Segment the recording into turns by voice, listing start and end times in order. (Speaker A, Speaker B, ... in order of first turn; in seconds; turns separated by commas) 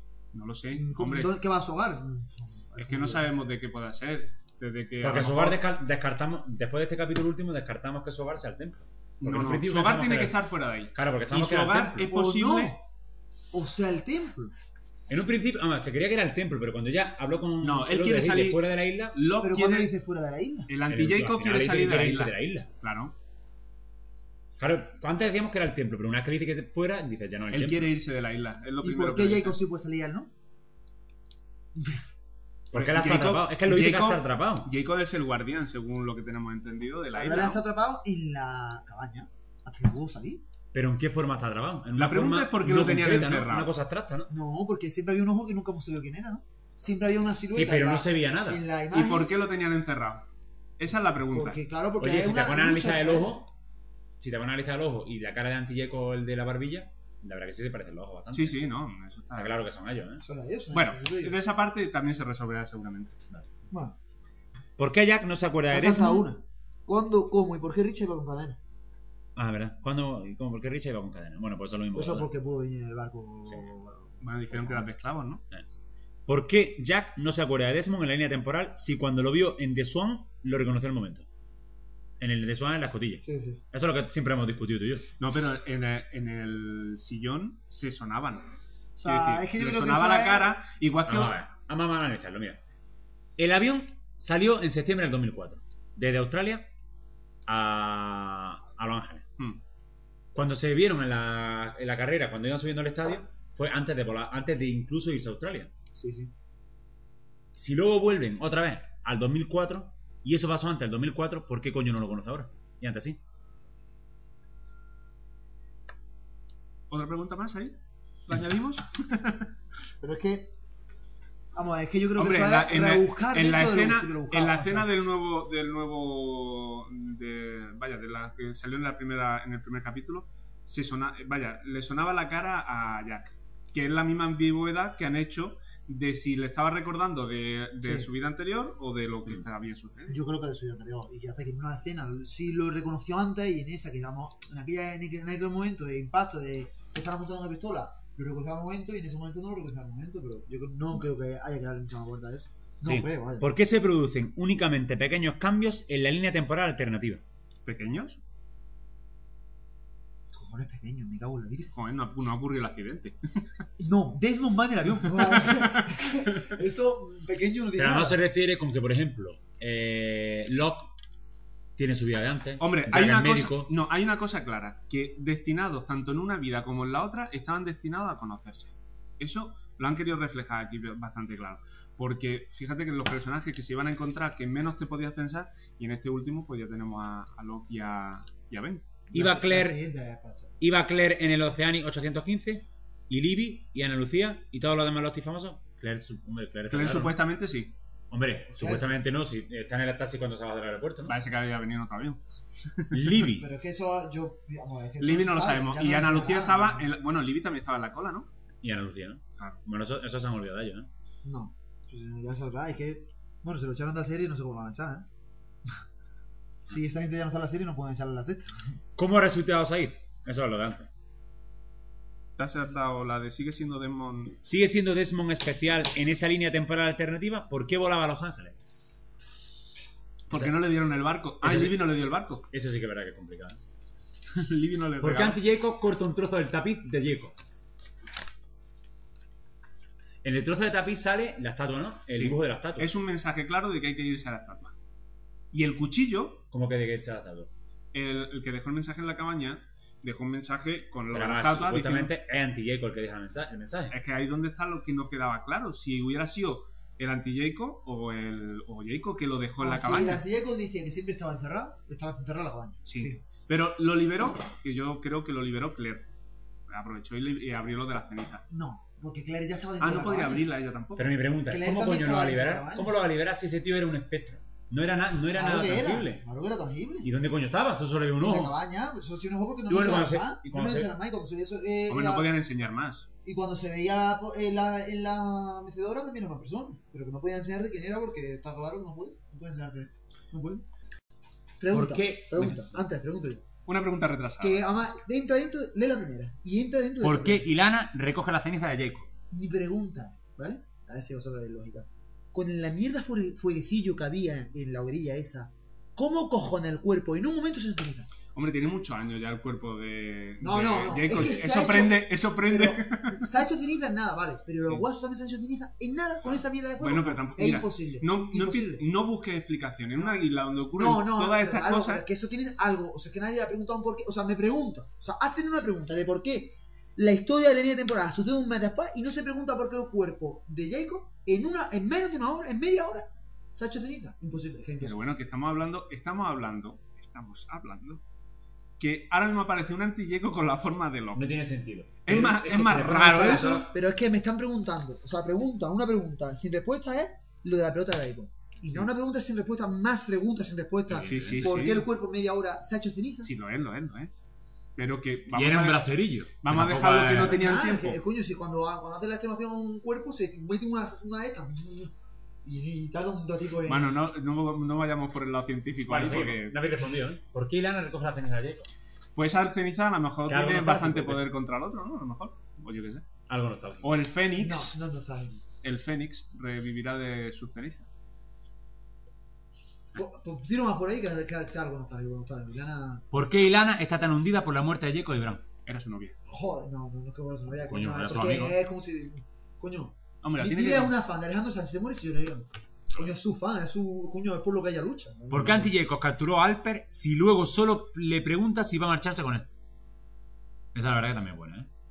Speaker A: 0.3-1.4, Speaker B: 0.7-3.3, Speaker A: 2.8-5.6, Speaker C: 5.0-10.4, Speaker A: 9.2-12.8, Speaker C: 10.9-12.1, Speaker B: 12.1-12.8, Speaker B: 13.5-14.5, Speaker C: 15.1-19.2, Speaker A: 17.6-19.9, Speaker B: 19.4-20.7, Speaker A: 20.7-23.1, Speaker C: 20.9-22.7, Speaker C: 24.6-27.9, Speaker A: 27.5-29.6, Speaker B: 28.8-30.3, Speaker B: 31.8-32.0, Speaker C: 32.7-34.7, Speaker A: 32.7-37.6, Speaker B: 37.1-40.4, Speaker C: 40.7-44.3, Speaker A: 42.0-43.7, Speaker B: 44.3-49.3, Speaker C: 47.5-48.6, Speaker A: 48.9-50.2, Speaker A: 50.8-51.6, Speaker B: 51.3-53.4, Speaker C: 52.0-53.5, Speaker C: 54.2-58.6, Speaker A: 58.3-59.6, Speaker C: 59.4-60.2, Speaker B: 60.2-61.4, Speaker A: 60.7-63.2, Speaker C: 64.8-66.3, Speaker B: 65.7-68.6, Speaker C: 69.4-72.3, Speaker B: 71.9-74.9, Speaker A: 74.2-75.4, Speaker C: 76.3-81.3, Speaker C: 82.2-85.1, Speaker B: 83.2-83.6, Speaker A: 85.2-88.5, Speaker B: 89.0-90.5, Speaker A: 89.0-91.4, Speaker C: 91.1-92.6, Speaker C: 93.4-96.7, Speaker C: 97.5-99.2, Speaker C: 100.3-105.7, Speaker B: 105.9-106.3, Speaker C: 107.5-113.2, Speaker A: 116.9-117.8, Speaker A: 118.3-119.5, Speaker B: 120.0-120.5, Speaker B: 121.5-124.9, Speaker A: 122.2-140.2, Speaker B: 137.8-138.1, Speaker B: 140.1-153.5, Speaker C: 152.8-157.2, Speaker A: 157.7-158.2, Speaker B: 160.3-161.7, Speaker A: 161.7-163.5, Speaker B: 163.8-168.2, Speaker A: 165.3-166.5, Speaker C: 167.8-170.9, Speaker C: 171.8-173.7, Speaker A: 172.6-188.9, Speaker C: 189.1-189.8, Speaker B: 189.1-190.6, Speaker C: 190.6-197.2, Speaker A: 196.7-197.7, Speaker C: 198.1-201.2, Speaker B: 198.6-199.0, Speaker A: 201.1-203.3, Speaker C: 202.9-203.5, Speaker B: 203.3-206.9, Speaker A: 205.0-208.3, Speaker C: 208.6-210.9, Speaker B: 211.2-215.1, Speaker B: 216.7-218.8, Speaker C: 219.0-220.9, Speaker A: 222.4-224.4, Speaker C: 224.4-228.6, Speaker A: 230.3-232.5, Speaker C: 230.3-230.6, Speaker C: 231.4-231.9, Speaker C: 232.5-233.6, Speaker A: 234.3-235.4, Speaker C: 235.0-237.4, Speaker C: 240.2-242.9, Speaker A: 242.1-244.7, Speaker A: 245.5-246.4, Speaker C: 246.5-247.5, Speaker A: 247.9-252.1, Speaker C: 251.1-253.9, Speaker A: 253.9-260.2, Speaker B: 259.6-263.2, Speaker A: 262.9-266.1, Speaker A: 266.7-268.4, Speaker B: 268.5-270.5, Speaker A: 269.8-271.1, Speaker C: 271.0-276.2, Speaker B: 271.5-273.0, Speaker B: 275.3-277.1, Speaker C: 277.0-278.6, Speaker B: 278.2-282.3, Speaker C: 279.7-280.9, Speaker A: 281.9-283.1, Speaker B: 283.2-290.6, Speaker B: 291.6-293.4, Speaker C: 291.7-292.8, Speaker A: 293.7-294.7, Speaker B: 294.4-297.5, Speaker C: 297.0-299.1, Speaker B: 299.3-308.1, Speaker A: 308.4-313.3, Speaker B: 310.4-318.8, Speaker A: 316.3-322.0, Speaker B: 320.8-335.0, Speaker A: 334.8-338.0, Speaker A: 338.8-341.3, Speaker C: 341.1-343.7, Speaker A: 342.1-343.7, Speaker B: 342.8-353.3, Speaker C: 350.9-351.6, Speaker A: 351.0-351.9, Speaker A: 353.2-354.2, Speaker A: 354.8-358.0, Speaker C: 355.3-357.5, Speaker B: 357.1-361.9, Speaker B: 362.4-364.0, Speaker A: 363.7-366.6, Speaker C: 365.9-368.7, Speaker A: 369.2-373.0, Speaker C: 370.3-371.2, Speaker C: 373.3-374.0, Speaker A: 373.8-374.8, Speaker B: 374.4-375.4, Speaker A: 375.6-377.9, Speaker B: 379.9-383.1, Speaker C: 383.1-385.4, Speaker A: 385.7-386.2, Speaker B: 386.3-395.7, Speaker C: 387.7-388.6, Speaker A: 390.2-390.9, Speaker C: 395.3-399.5, Speaker C: 400.7-401.7